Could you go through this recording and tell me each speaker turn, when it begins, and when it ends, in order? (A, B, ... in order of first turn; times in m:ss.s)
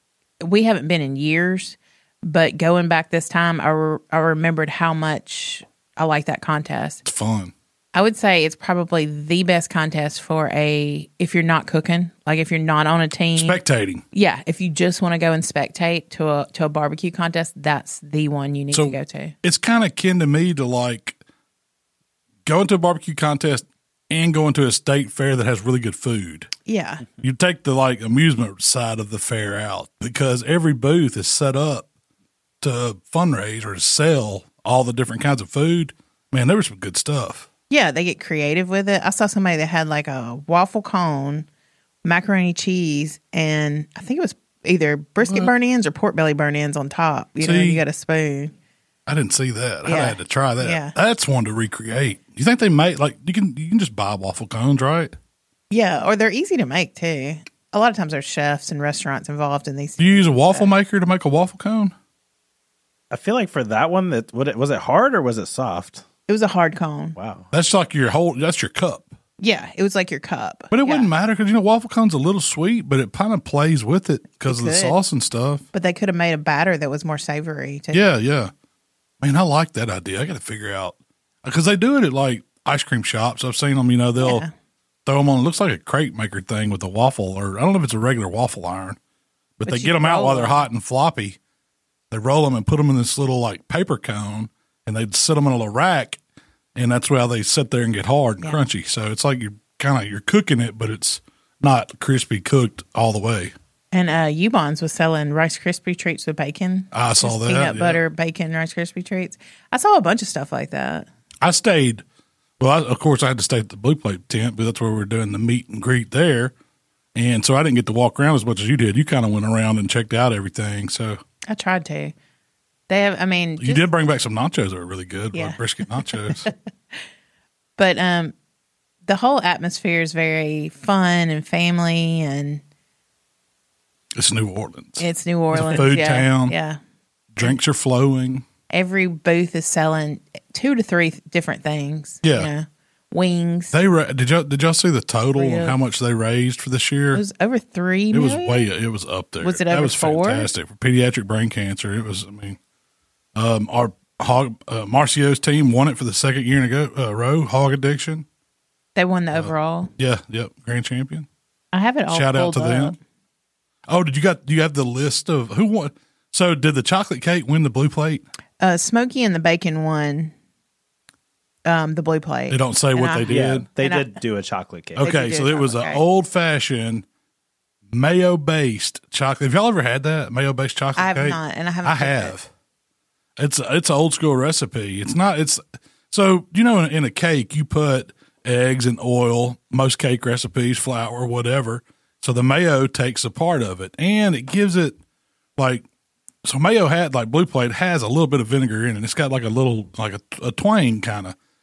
0:00.4-0:07.0 A
0:07.0-0:07.5 B
0:07.9-0:13.6 A
0:13.4-0:14.0 B
0:14.1-0:19.3 A
0:18.7-0:21.2 B
0:22.4-0:26.5 B
0:26.6-0:27.0 A
0:27.2-0:31.9 B
0:32.6-0:37.5 B
0:37.7-0:41.4 A
0:42.0-0:48.5 A
0:45.2-0:45.5 B
0:47.4-0:47.8 B
0:49.0-0:55.1 B
0:49.8-0:50.9 A
0:55.7-1:00.7 A
1:00.0-1:01.9 B
1:03.1-1:06.0 C
1:06.3-1:07.1 A
1:07.2-1:07.5 C
1:07.5-1:09.1 B
1:09.4-1:11.1 A
1:10.7-1:15.6 B
1:14.4-1:15.0 A
1:15.7-1:18.0 A
1:17.9-1:18.5 B
1:19.2-1:24.4 B
1:24.2-1:24.5 A
1:25.0-1:29.0 B
1:29.6-1:31.4 B
1:29.6-1:30.6 A
1:32.1-1:36.2 B
1:36.7-1:43.5 B
1:43.9-1:51.1 A
1:46.9-1:48.0 B
1:51.4-1:52.0 B
1:52.6-1:56.5 B
1:57.1-2:01.2 B
2:01.5-2:02.1 A
2:02.9-2:03.9 A
2:03.6-2:06.5 B
2:05.3-2:05.6 A
2:07.8-2:08.3 A
2:09.0-2:12.6 A
2:14.1-2:16.5 B
2:15.0-2:16.8 A
2:17.3-2:18.4 B
2:18.7-2:23.7 A
2:22.2-2:22.5 B
2:23.7-2:27.2 B
2:25.3-2:25.8 A
2:27.1-2:28.6 A
2:28.1-2:32.6 B
2:29.4-2:30.5 A
2:33.3-2:38.2 B
2:39.0-2:39.9 A
2:39.3-2:41.3 B
2:41.7-2:43.0 A
2:42.1-2:42.9 B
2:43.9-2:48.2 B
2:48.6-2:50.3 A
2:51.6-2:54.1 A
2:52.5-2:53.7 B
2:53.3-2:55.0 C
2:55.0-2:57.0 B
2:55.0-2:56.0 A
2:57.9-3:02.5 B
3:01.0-3:02.3 A
3:03.4-3:15.0 B
3:15.6-3:15.8 B
3:16.4-3:21.4 B